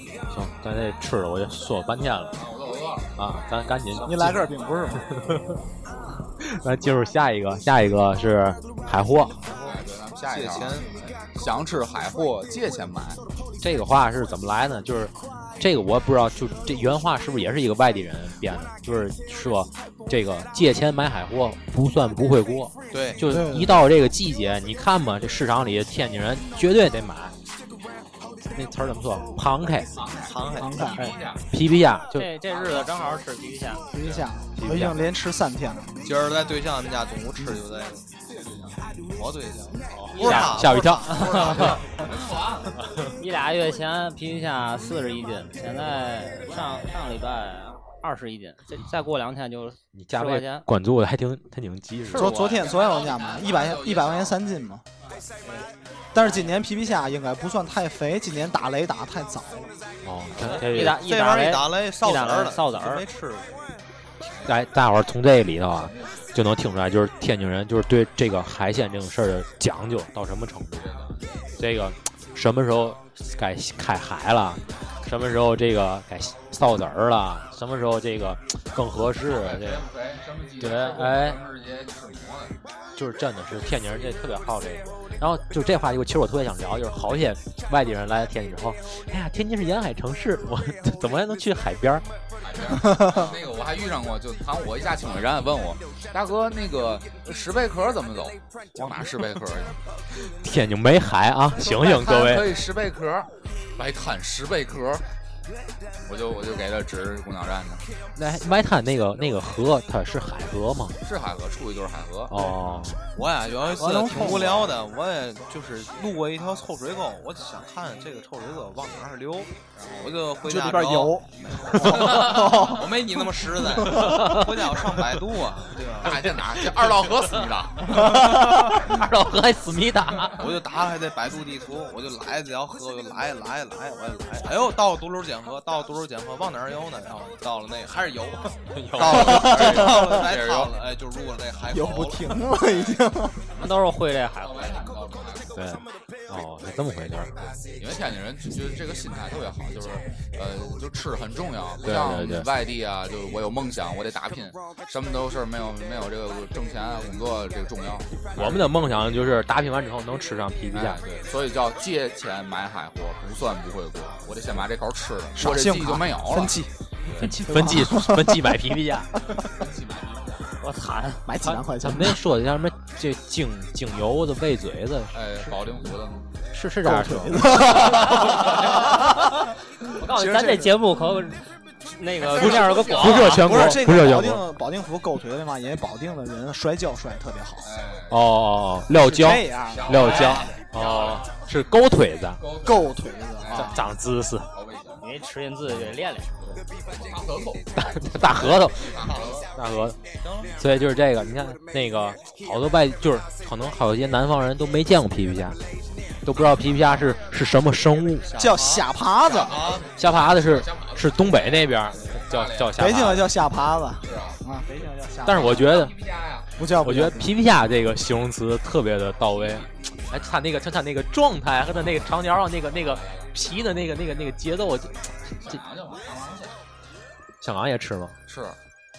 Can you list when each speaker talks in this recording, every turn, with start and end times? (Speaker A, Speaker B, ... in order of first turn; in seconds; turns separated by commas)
Speaker A: 0.3-2.4, Speaker B: 2.3-3.1, Speaker A: 3.1-5.6, Speaker C: 4.0-5.1, Speaker A: 6.4-9.4, Speaker D: 9.4-9.8, Speaker B: 9.5-13.2, Speaker D: 10.3-11.0, Speaker A: 13.6-27.3, Speaker D: 22.9-23.2, Speaker C: 23.2-23.8, Speaker A: 28.5-29.9, Speaker B: 29.9-31.4, Speaker D: 30.1-31.0, Speaker C: 30.6-31.0, Speaker A: 30.9-32.3, Speaker E: 32.1-33.9, Speaker B: 32.5-33.1, Speaker C: 33.9-36.0, Speaker B: 34.0-34.3, Speaker A: 34.6-35.0, Speaker D: 36.0-38.0, Speaker B: 38.3-38.8, Speaker D: 39.1-41.7, Speaker A: 39.9-41.8, Speaker E: 40.1-41.7, Speaker B: 41.1-42.7, Speaker A: 42.8-43.1, Speaker E: 43.2-50.7, Speaker A: 49.9-52.4, Speaker C: 52.1-54.8, Speaker E: 52.1-52.6, Speaker B: 52.4-54.4, Speaker C: 56.1-59.7, Speaker A: 60.0-61.0, Speaker D: 60.4-63.5, Speaker E: 60.5-63.0, Speaker A: 64.4-70.9, Speaker B: 65.7-66.3, Speaker B: 70.8-71.2, Speaker A: 71.6-79.9, Speaker B: 79.2-82.5, Speaker A: 80.6-81.4, Speaker A: 83.0-92.0, Speaker B: 92.4-99.8, Speaker C: 92.8-93.3, Speaker A: 100.1-102.6, Speaker B: 101.6-105.0, Speaker B: 106.1-107.8, Speaker A: 108.2-111.0, Speaker B: 111.0-112.3, Speaker A: 112.3-113.0, Speaker D: 113.1-126.4, Speaker C: 113.8-114.8, Speaker B: 119.7-120.1, Speaker C: 120.4-123.0, Speaker C: 123.8-124.3, Speaker A: 123.8-125.0, Speaker B: 126.0-128.1, Speaker A: 127.8-130.5, Speaker D: 130.3-142.4, Speaker A: 138.7-139.6, Speaker C: 139.2-140.2, Speaker B: 139.4-140.7, Speaker C: 141.7-143.4, Speaker B: 142.6-143.0, Speaker E: 143.5-144.8, Speaker B: 144.4-145.5, Speaker A: 145.5-147.3, Speaker B: 147.4-158.7, Speaker A: 151.8-152.5, Speaker A: 158.3-161.0, Speaker B: 160.7-167.3, Speaker C: 165.3-166.7, Speaker A: 167.2-169.1, Speaker C: 167.2-168.5, Speaker B: 169.4-170.5, Speaker E: 170.6-171.2, Speaker C: 171.2-172.2, Speaker A: 171.4-175.5, Speaker B: 175.1-176.3, Speaker A: 176.5-178.0, Speaker C: 176.8-179.1, Speaker E: 179.9-183.5, Speaker C: 180.1-180.9, Speaker A: 182.4-184.4, Speaker B: 182.4-183.2, Speaker C: 183.3-187.7, Speaker B: 187.6-188.2, Speaker A: 188.1-192.4, Speaker C: 188.9-190.3, Speaker B: 189.7-191.3, Speaker D: 190.1-190.5, Speaker B: 192.4-193.8, Speaker C: 192.6-193.8, Speaker A: 193.5-194.5, Speaker B: 194.5-195.0, Speaker E: 195.0-196.3, Speaker B: 196.4-199.5, Speaker A: 197.7-200.0, Speaker D: 199.1-199.4, Speaker D: 200.2-200.6, Speaker A: 200.6-205.6, Speaker A: 206.2-208.3, Speaker D: 208.2-209.9, Speaker C: 208.3-209.6, Speaker B: 209.3-212.8, Speaker A: 209.9-213.3, Speaker C: 212.8-215.7, Speaker B: 214.0-214.4, Speaker A: 215.2-215.9, Speaker B: 215.4-216.5, Speaker C: 216.6-217.3, Speaker A: 216.8-225.6, Speaker B: 222.8-223.3, Speaker B: 225.4-226.6, Speaker A: 227.4-228.2, Speaker B: 228.3-228.6